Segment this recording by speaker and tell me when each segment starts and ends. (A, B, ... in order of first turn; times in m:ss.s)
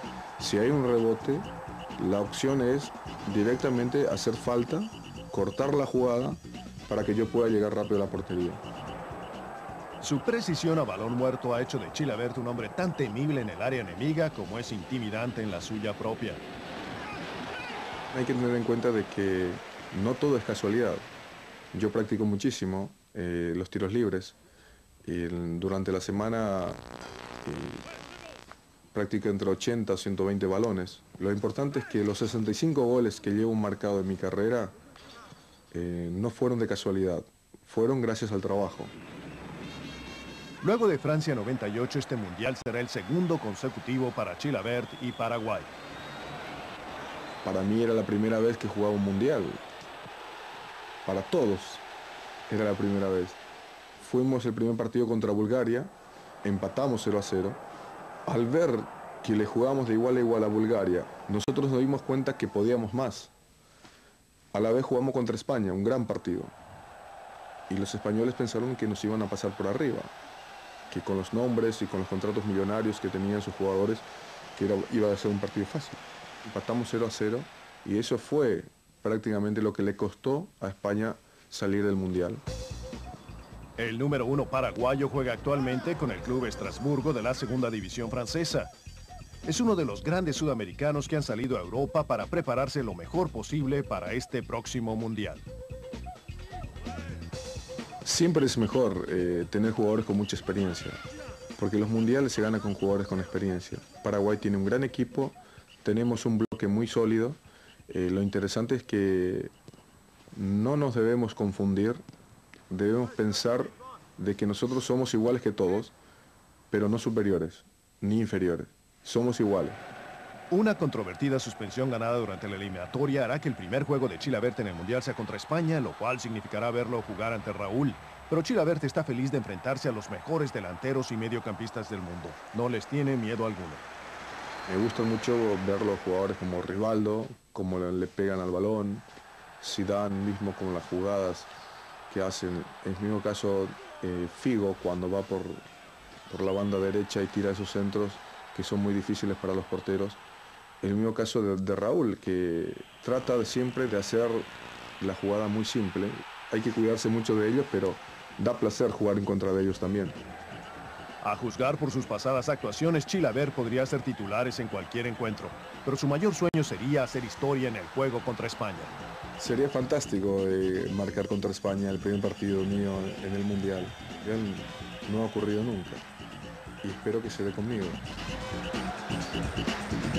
0:00.4-0:01.5 A
0:02.0-0:08.6 A
0:10.0-0:16.4 B
0:18.1-0:21.1 A
0:21.7-0:24.4 A
0:25.0-0:26.8 A
0:27.4-0:27.8 A
0:28.9-0:34.8 A
0:35.7-0:38.9 A
0:40.6-0:45.7 B
0:47.4-0:49.6 A
0:51.0-0:51.8 A
0:52.5-0:53.4 A
0:54.0-0:55.9 A
0:56.4-0:57.6 A
0:58.2-1:03.3 A
1:04.5-1:06.5 A
1:07.7-1:10.1 A
1:10.9-1:14.0 A
1:14.6-1:22.4 A
1:23.8-1:28.7 B
1:29.4-1:35.4 B
1:38.0-1:41.0 A
1:41.6-1:49.5 A
1:50.3-1:52.0 A
1:52.7-1:55.9 A
1:56.7-1:59.8 A
2:00.5-2:13.8 B
2:14.7-2:19.0 A
2:19.6-2:21.5 A
2:22.1-2:25.6 A
2:26.3-2:30.2 A
2:30.8-2:34.5 A
2:35.0-2:40.2 A
2:41.2-2:49.0 B
2:49.4-2:56.0 A
2:56.8-2:58.0 A